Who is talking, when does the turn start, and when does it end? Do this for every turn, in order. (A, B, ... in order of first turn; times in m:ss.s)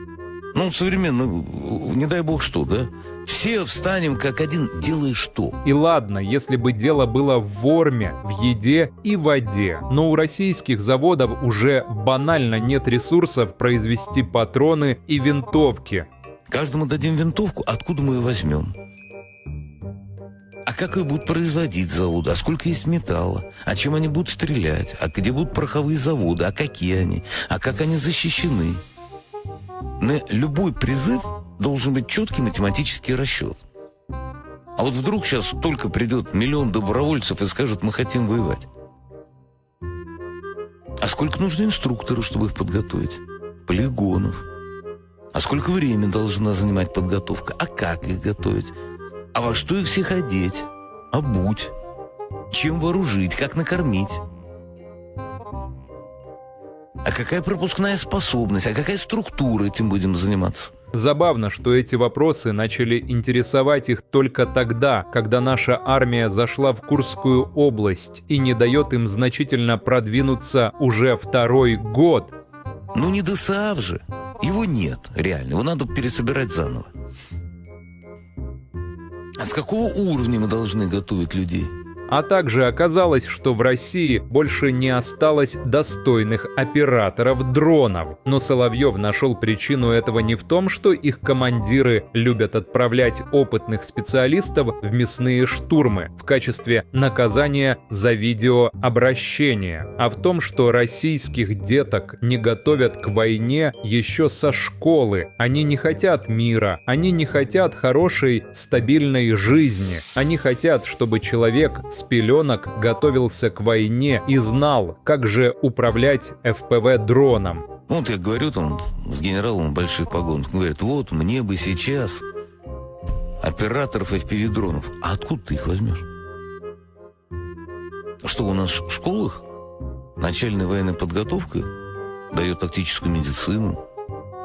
0:00.5-0:05.6 A
0:05.6-0:16.1 B
0:16.5-0:18.7 A
0:20.7-0:28.8 A
0:30.0-0:33.6 A
0:34.8-0:38.7 A
0:41.0-0:44.4 A
0:45.3-0:48.7 A
0:49.3-0:51.7 A
0:52.5-0:54.2 A
0:57.0-1:00.7 A
1:00.9-1:12.3 B
1:12.9-1:16.9 A
1:19.4-1:21.7 A
1:22.1-1:57.6 B
1:57.9-2:02.2 A
2:03.4-2:06.1 A
2:08.2-2:09.4 A
2:10.2-2:11.7 A
2:12.3-2:13.8 A